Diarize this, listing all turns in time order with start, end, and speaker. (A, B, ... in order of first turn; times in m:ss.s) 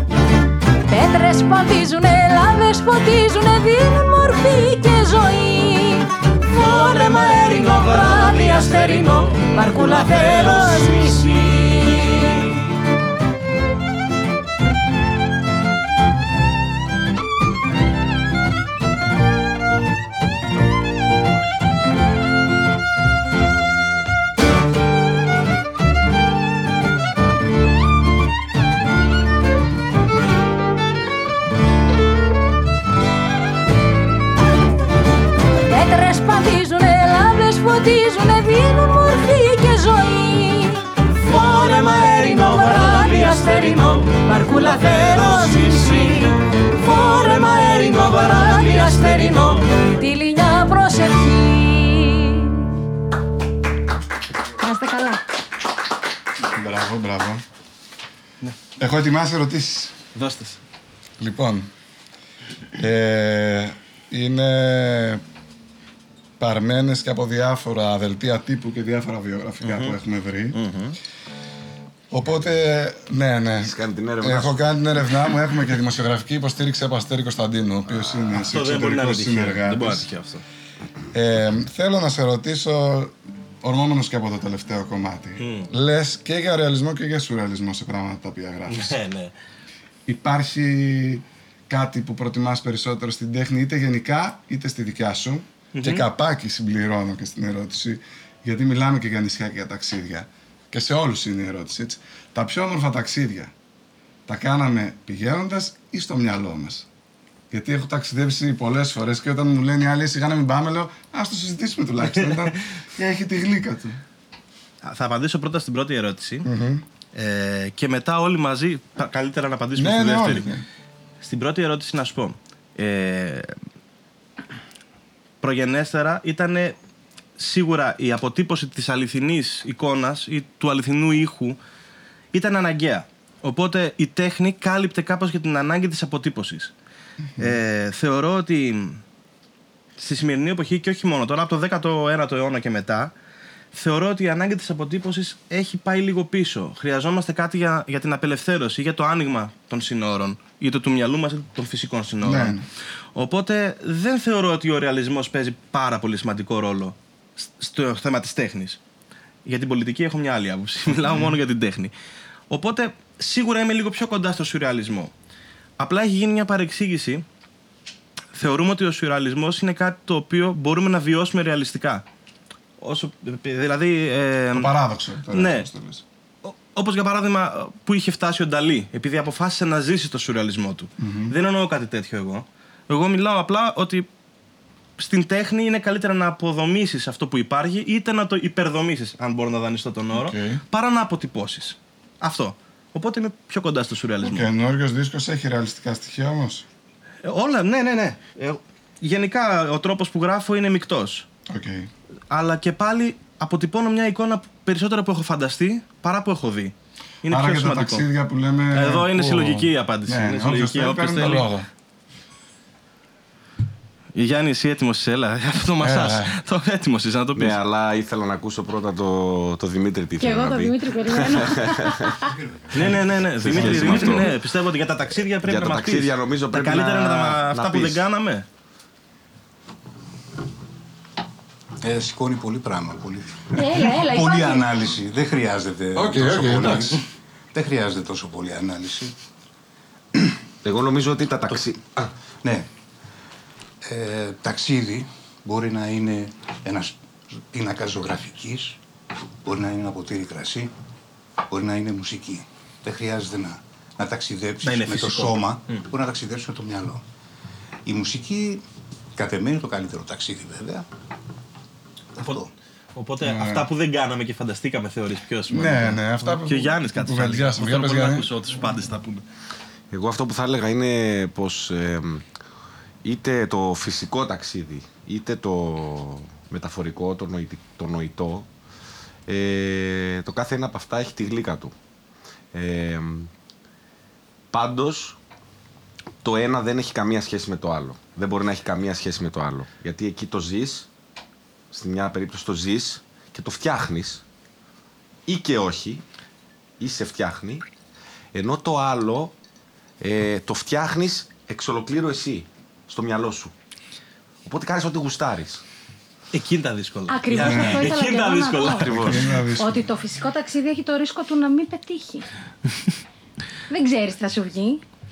0:00.9-0:12.5 A
0:35.7-0:52.7 A
0:54.6-0:55.2 A
0:56.4-0:57.4 B
0:58.8-1:00.0 B
1:00.2-1:00.6 C
1:01.2-1:01.7 B
1:02.7-1:05.2 B
1:06.4-1:10.6 B
1:09.6-1:10.0 C
1:10.5-1:11.0 C
1:12.1-1:20.1 B
1:13.6-1:14.6 D
1:18.4-1:20.4 C
1:21.1-1:29.0 B
1:25.4-1:25.7 C
1:28.7-1:29.3 C
1:30.1-1:43.5 B
1:35.7-1:36.1 C
1:44.3-1:46.9 B
1:47.5-1:54.0 B
1:52.0-1:52.6 C
1:54.8-1:56.5 C
1:56.4-1:56.8 B
1:57.2-2:00.6 C
1:59.8-2:00.6 B
2:01.2-2:03.6 C
2:05.4-2:06.8 C
2:07.4-2:11.6 C
2:12.3-2:16.7 C
2:17.4-2:19.0 C
2:20.0-2:23.1 C
2:23.7-2:32.6 C
2:32.2-2:32.7 B
2:33.2-2:38.8 C
2:39.4-2:41.9 C
2:42.5-2:45.1 C
2:45.8-2:47.2 C
2:48.4-2:52.0 C
2:52.8-2:54.7 C
2:54.5-2:56.0 B
2:55.3-2:55.7 C
2:56.4-3:04.1 C
3:01.0-3:01.4 B
3:05.0-3:14.5 C
3:10.1-3:10.6 B
3:14.2-3:16.6 B
3:17.2-3:21.3 C
3:21.5-3:21.9 B
3:22.3-3:28.1 C
3:27.3-3:31.7 B
3:28.7-3:31.5 C
3:34.2-3:37.6 C
3:35.8-3:36.4 B
3:37.3-3:42.2 D
3:40.2-3:42.3 A
3:42.2-3:43.6 E
3:42.7-3:48.4 C
3:42.8-3:44.4 D
3:45.3-3:48.0 D
3:51.8-3:59.2 E
3:53.6-3:54.6 A
3:56.0-3:57.0 B
4:00.6-4:02.1 D
4:02.4-4:02.7 E
4:03.8-4:08.8 E
4:09.4-4:10.7 E
4:11.5-4:17.0 E
4:14.6-4:15.8 C
4:17.9-4:18.6 E
4:19.2-4:20.8 E
4:22.2-4:22.5 E
4:23.0-4:29.2 C
4:23.2-4:23.7 B
4:25.5-4:28.3 B
4:29.9-4:32.2 D
4:33.0-4:38.5 D
4:39.3-4:41.7 D
4:42.5-4:43.3 D
4:44.5-4:45.2 D
4:46.2-4:50.9 D
4:51.7-4:54.2 D
4:55.3-4:56.0 D
4:56.8-4:57.6 D
4:58.3-4:59.3 D
5:00.0-5:03.5 D
5:04.4-5:05.6 D
5:06.3-5:09.2 C
5:07.1-5:09.0 A
5:07.3-5:08.0 B
5:08.8-5:09.2 D
5:08.9-5:09.8 B
5:09.5-5:12.3 A
5:13.7-5:14.8 A